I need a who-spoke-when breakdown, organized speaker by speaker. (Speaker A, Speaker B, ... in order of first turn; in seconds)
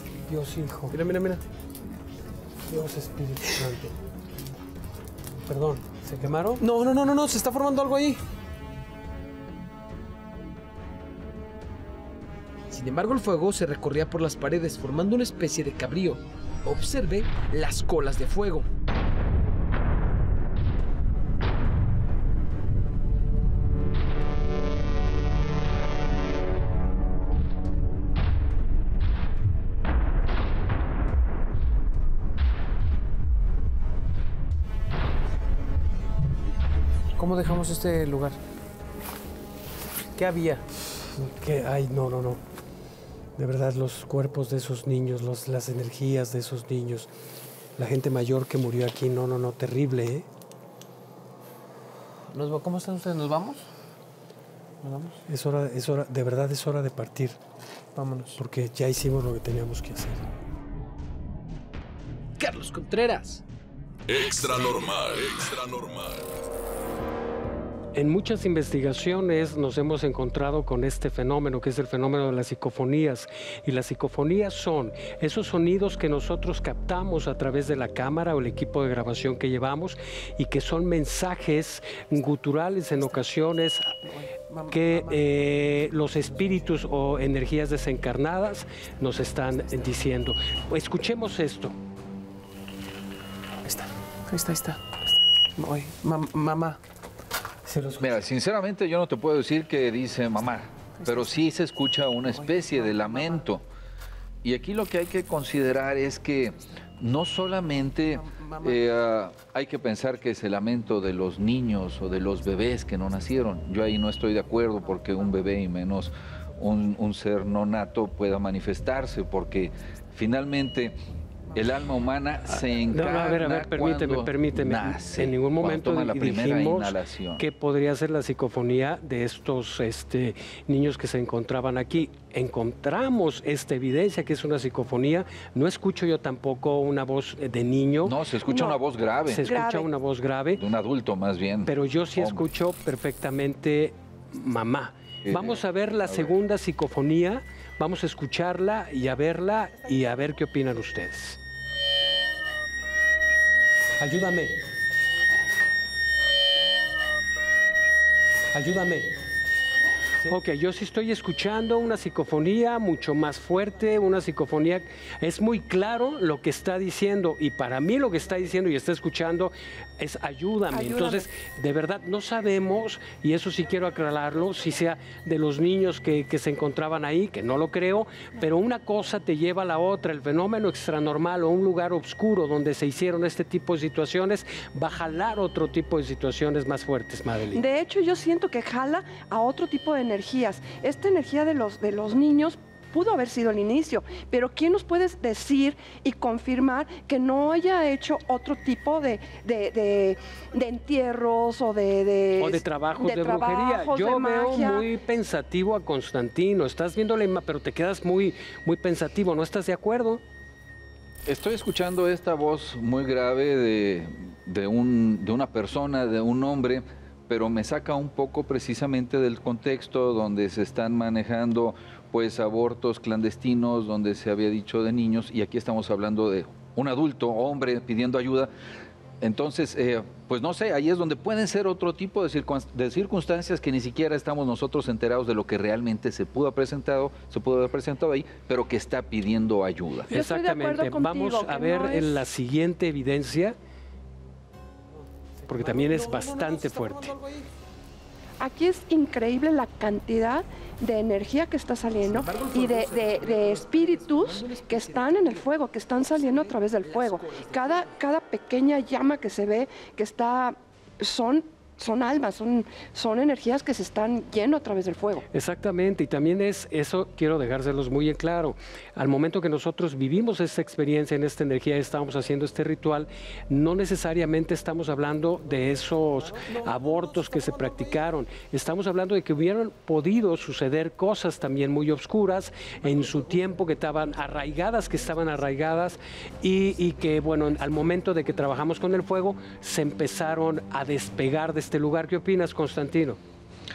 Speaker A: 0.3-1.0, 2.7-3.9, 5.5-6.6, 41.1-42.4, 43.4-47.1, 47.8-50.3, 55.3-57.4, 58.4-60.3, 68.0-84.0, 84.7-91.8, 97.7-98.2, 122.5-138.2, 139.3-140.6, 141.7-151.4, 154.0-154.6, 158.5-159.1, 160.2-187.6, 202.4-210.2, 240.1-243.6, 245.5-247.1, 265.3-293.2
Speaker B: 0.9-1.4, 6.6-8.2, 37.2-38.4, 40.1-40.6, 52.3-53.6, 54.8-55.2, 58.0-58.4, 84.0-86.7, 93.7-96.8, 101.0-101.4, 102.3-103.4, 108.1-108.8, 245.4-247.5, 276.2-278.0
Speaker C: 12.7-18.7, 62.4-63.4, 252.0-255.5, 256.1-258.0
Speaker D: 64.1-66.3
Speaker E: 98.0-103.6, 104.4-121.0, 121.5-127.4, 138.0-139.5, 140.6-142.4, 145.3-146.3, 211.3-228.5, 229.2-240.1
Speaker F: 138.5-138.8, 139.4-139.9, 170.7-171.2, 187.5-204.9, 240.1-242.2, 248.4-265.3